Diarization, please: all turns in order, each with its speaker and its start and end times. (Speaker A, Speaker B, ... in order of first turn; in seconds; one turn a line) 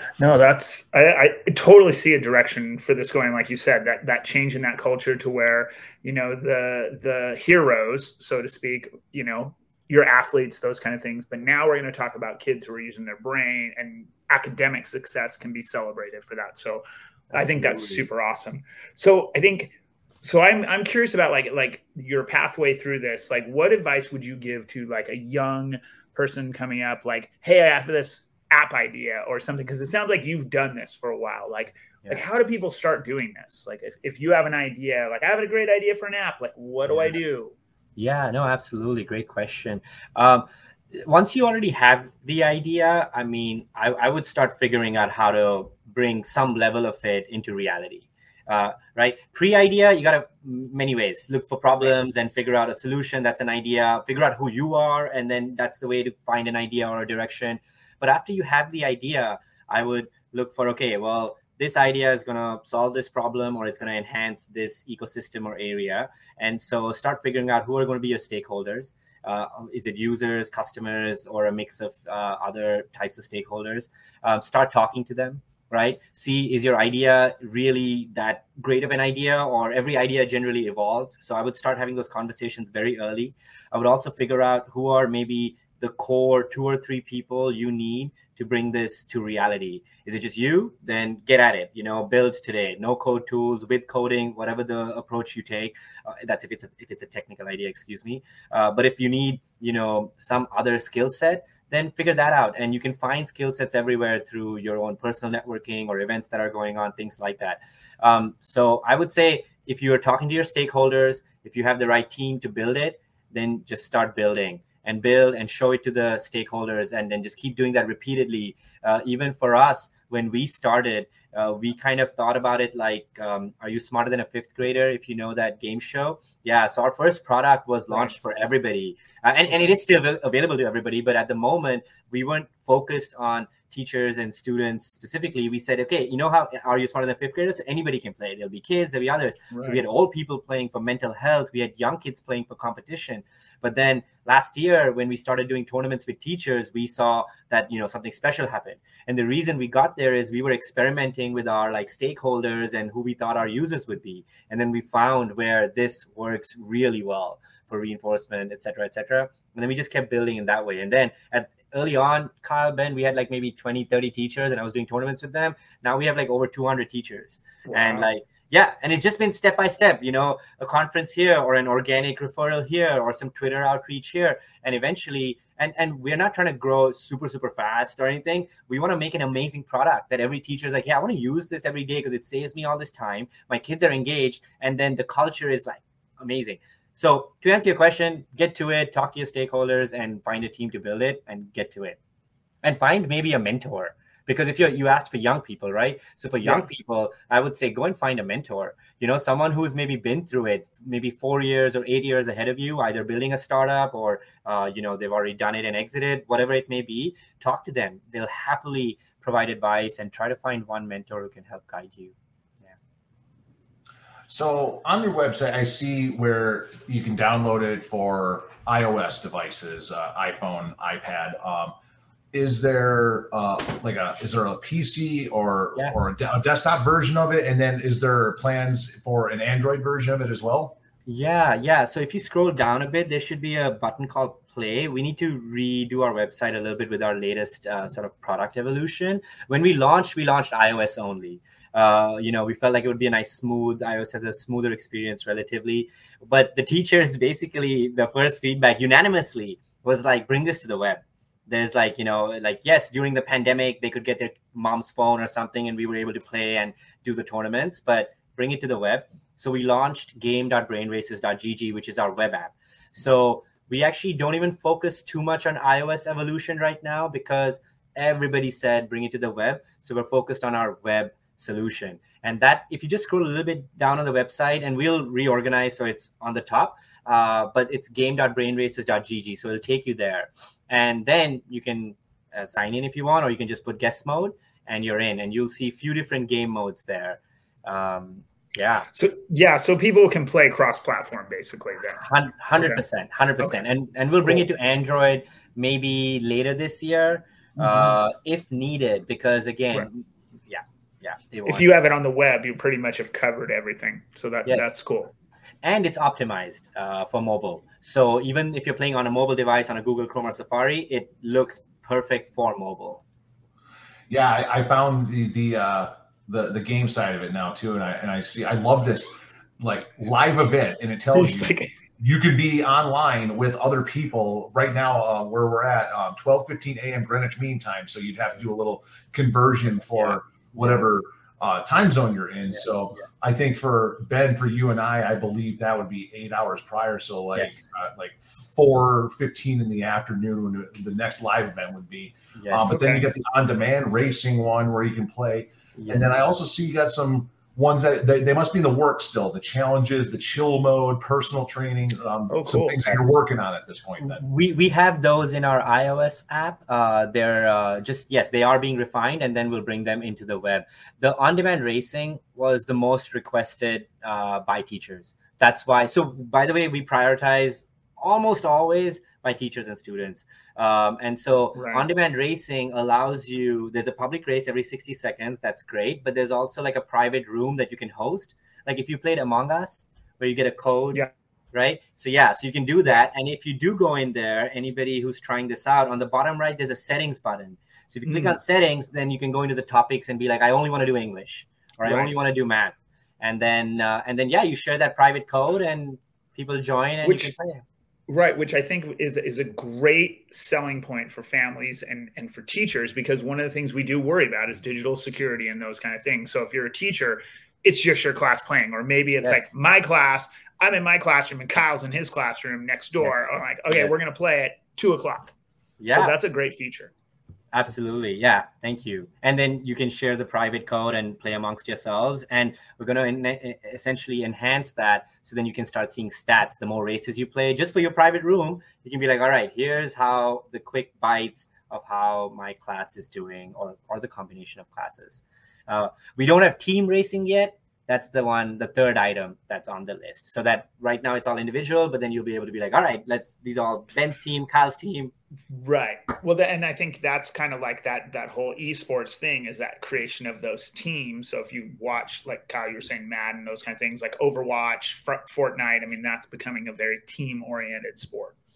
Speaker A: 0.2-37.5
Speaker B: 17.3-18.0
Speaker B: 38.0-192.0
Speaker A: 139.5-139.8
Speaker A: 167.7-168.1
Speaker B: 192.6-212.7
Speaker A: 196.4-196.7
Speaker C: 214.3-221.7
Speaker C: 222.3-230.7
Speaker B: 231.1-288.9
Speaker A: 288.9-292.0
Speaker B: 292.0-301.7
Speaker A: 297.6-298.0
Speaker A: 301.4-305.1
Speaker B: 304.4-304.7
Speaker B: 305.6-313.0
Speaker C: 314.1-354.2
Speaker A: 321.1-321.7
Speaker B: 342.4-342.8
Speaker A: 342.7-343.1
Speaker B: 345.8-346.2
Speaker A: 352.3-353.1
Speaker B: 354.0-397.6
Speaker A: 371.5-371.8
Speaker A: 388.0-388.4
Speaker A: 391.8-392.1
Speaker A: 397.0-397.3
Speaker A: 398.1-415.3
Speaker B: 409.2-409.5
Speaker B: 413.0-414.1
Speaker B: 415.8-416.1
Speaker A: 415.9-416.9
Speaker B: 417.5-445.1
Speaker A: 445.5-458.4